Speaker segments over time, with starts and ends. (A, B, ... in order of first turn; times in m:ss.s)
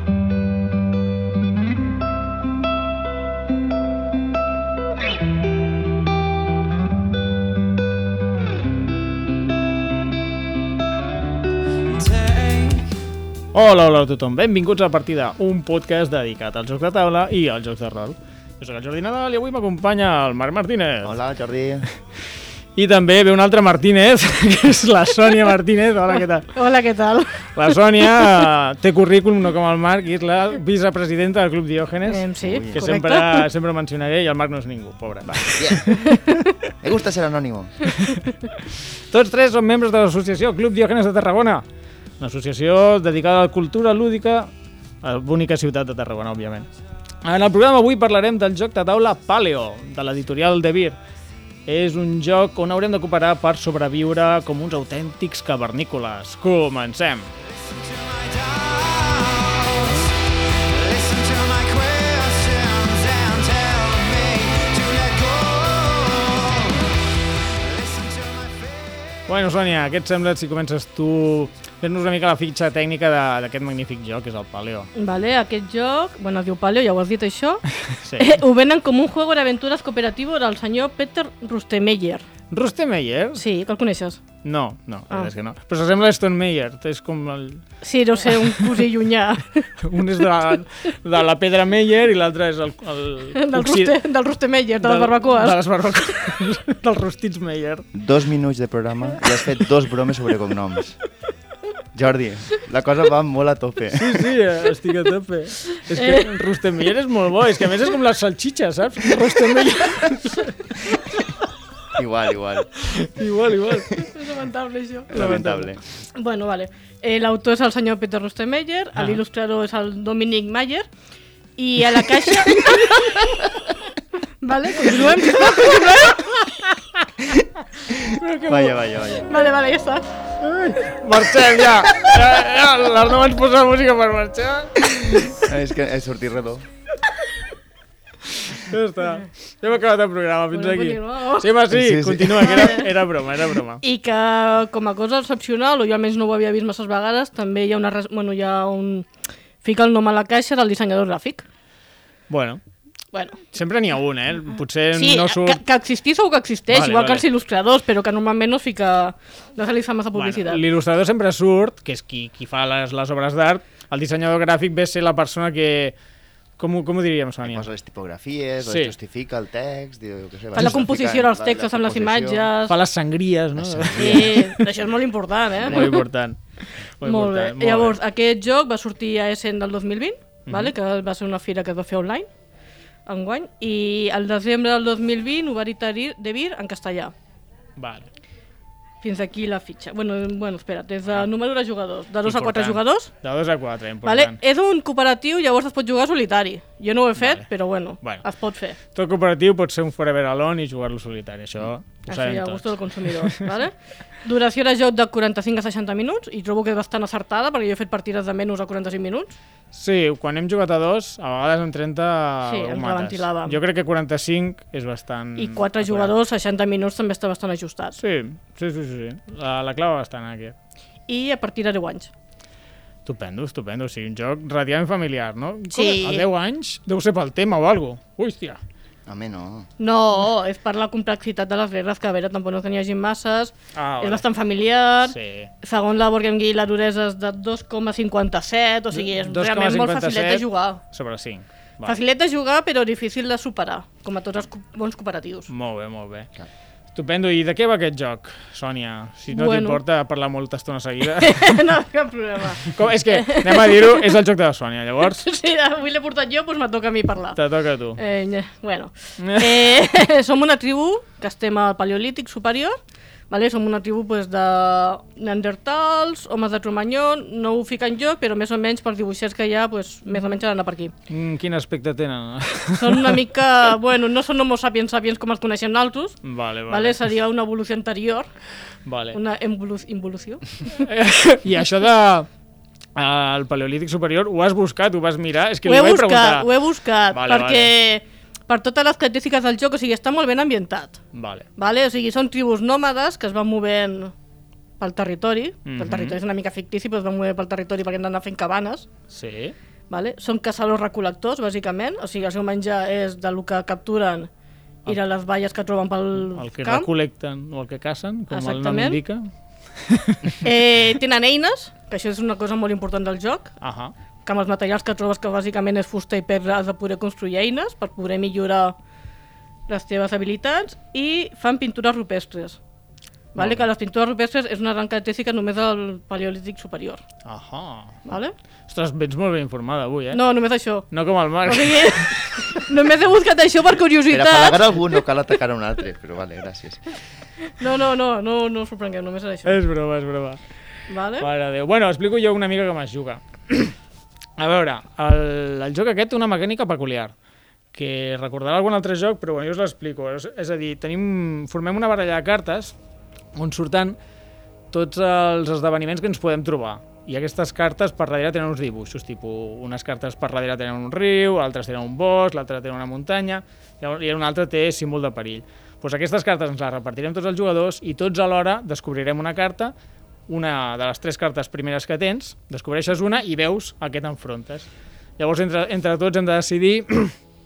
0:13.5-0:21.2 A
0:21.0-0:21.9 B
0:22.8-0:26.5 A
0:26.5-0:28.1 C
0:27.5-0:36.2 A
0:32.1-0:33.5 C
0:32.4-0:32.9 B
0:35.3-0:36.0 B
0:35.9-0:36.4 C
0:36.8-0:37.8 B
0:38.0-0:41.6 A
0:42.2-0:44.5 A
0:45.0-0:46.7 A
0:47.2-0:51.0 A
0:51.7-0:57.3 A
0:57.5-1:06.9 B
1:07.5-1:09.2 B
1:09.3-1:14.9 A
1:14.9-1:17.6 C
1:17.9-1:18.4 A
1:18.2-1:22.2 C
1:22.5-1:23.4 A
1:23.4-1:24.2 C
1:24.4-1:27.6 A
1:27.8-1:29.7 C
1:28.3-1:28.8 A
1:29.8-1:34.0 A
1:33.3-1:35.6 C
1:34.8-1:37.9 A
1:37.9-1:41.0 B
1:41.9-1:44.3 B
1:44.0-1:51.3 A
1:45.9-1:46.3 C
1:51.9-1:52.7 B
1:52.8-1:54.0 A
1:54.0-1:55.1 C
1:55.1-1:55.8 B
1:55.1-1:55.8 A
1:56.1-2:00.8 C
2:01.6-2:03.5 C
2:04.4-2:06.2 C
2:04.8-2:06.8 A
2:07.9-2:08.7 A
2:08.4-2:09.3 B
2:09.1-2:10.0 C
2:10.4-2:15.3 A
2:15.2-2:16.6 B
2:18.3-2:23.8 A
2:20.5-2:21.5 C
2:21.7-2:22.8 B
2:22.4-2:22.9 C
2:23.8-2:29.1 C
2:29.6-2:31.4 C
2:32.3-2:32.6 A
2:33.1-2:33.4 C
2:33.5-2:35.6 A
2:34.9-2:40.6 C
2:36.7-2:37.2 A
2:40.1-2:46.0 A
2:46.6-2:47.7 A
2:47.4-2:52.5 B
2:48.6-2:48.9 A
2:50.5-2:52.8 C
2:50.6-2:50.8 A
2:52.7-2:54.6 A
2:53.6-2:54.4 B
2:54.0-2:56.0 C
2:55.6-2:56.4 A
2:57.0-2:58.0 A
2:57.0-3:02.3 C
3:00.5-3:00.7 A
3:03.0-3:07.1 C
3:07.8-3:08.1 A
3:09.0-3:13.1 C
3:12.2-3:14.4 A
3:14.0-3:18.8 C
3:17.2-3:17.4 A
3:18.9-3:23.5 A
3:22.1-3:29.4 C
3:29.7-3:36.1 A
3:32.4-3:33.6 C
3:35.4-3:38.0 C
3:38.0-3:40.5 A
3:41.1-3:42.1 C
3:43.0-3:48.6 A
3:45.7-3:46.2 C
3:49.1-3:49.7 B
3:49.8-4:00.8 C
3:53.7-3:54.2 A
3:55.1-3:55.5 A
3:58.9-4:02.0 A
4:01.8-4:05.5 C
4:05.5-4:06.3 A
4:06.9-4:11.6 A
4:09.3-4:09.8 C
4:11.1-4:14.1 C
4:12.7-4:15.3 A
4:15.0-4:17.4 C
4:17.4-4:18.0 A
4:18.0-4:22.8 C
4:19.2-4:19.8 A
4:23.3-4:30.9 C
4:31.1-4:33.2 A
4:32.8-4:36.2 C
4:36.2-4:37.0 A
4:36.7-4:38.3 C
4:38.8-4:39.2 A
4:39.1-4:40.8 C
4:40.8-4:42.3 A
4:43.0-4:46.5 A
4:45.6-4:51.0 C
4:47.1-4:47.7 A
4:51.1-4:51.4 A
4:51.6-4:54.1 C
4:54.8-4:58.9 C
4:55.6-4:56.2 A
4:59.1-4:59.5 A
4:59.9-5:04.3 C
5:04.8-5:06.9 C
5:06.2-5:10.4 A
5:08.3-5:09.0 C
5:10.4-5:13.5 C
5:13.6-5:13.9 A
5:14.2-5:18.8 C
5:19.7-5:22.6 C
5:23.3-5:27.0 C
5:23.4-5:23.6 A
5:27.2-5:28.0 A
5:28.0-5:28.3 C
5:28.7-5:30.2 A
5:30.1-5:30.9 C
5:30.9-5:32.4 A
5:31.4-5:35.0 C
5:34.1-5:36.9 B
5:37.4-5:39.6 C
5:39.4-5:40.4 A
5:40.9-5:41.3 C
5:41.2-5:43.7 A
5:44.4-5:47.1 A
5:47.7-5:52.7 A
5:53.3-5:54.0 A
5:54.7-6:09.7 A
6:10.3-6:17.1 A